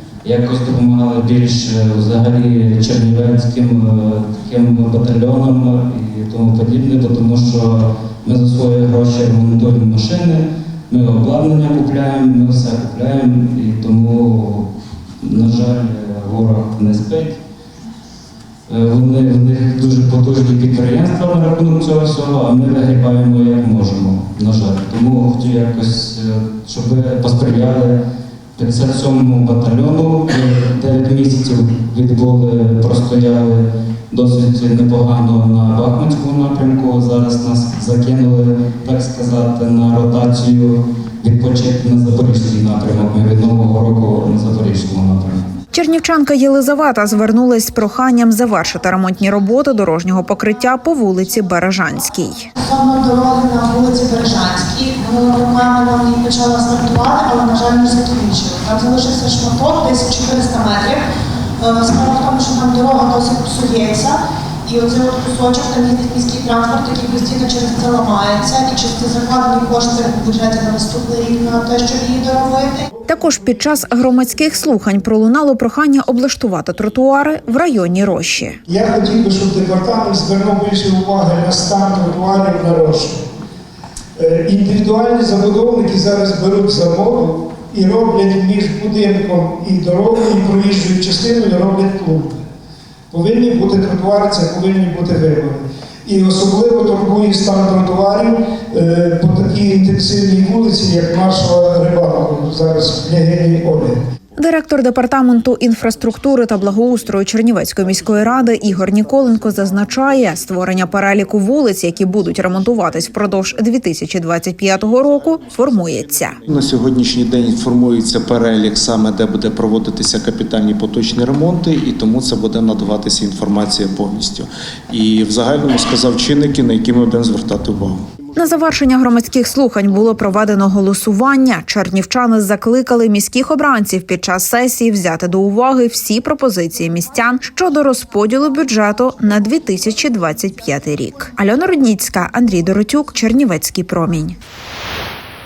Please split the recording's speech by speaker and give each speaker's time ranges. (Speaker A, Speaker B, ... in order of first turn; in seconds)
Speaker A: 0.2-14.7, 15.2-17.4, 18.7-28.0, 28.6-45.5
Speaker B: 45.7-52.5, 73.0-78.6, 104.4-116.4, 128.4-144.4
Speaker C: 52.6-61.0, 61.6-72.9
Speaker D: 78.7-83.2, 84.2-92.4, 93.1-104.0
Speaker E: 116.5-128.0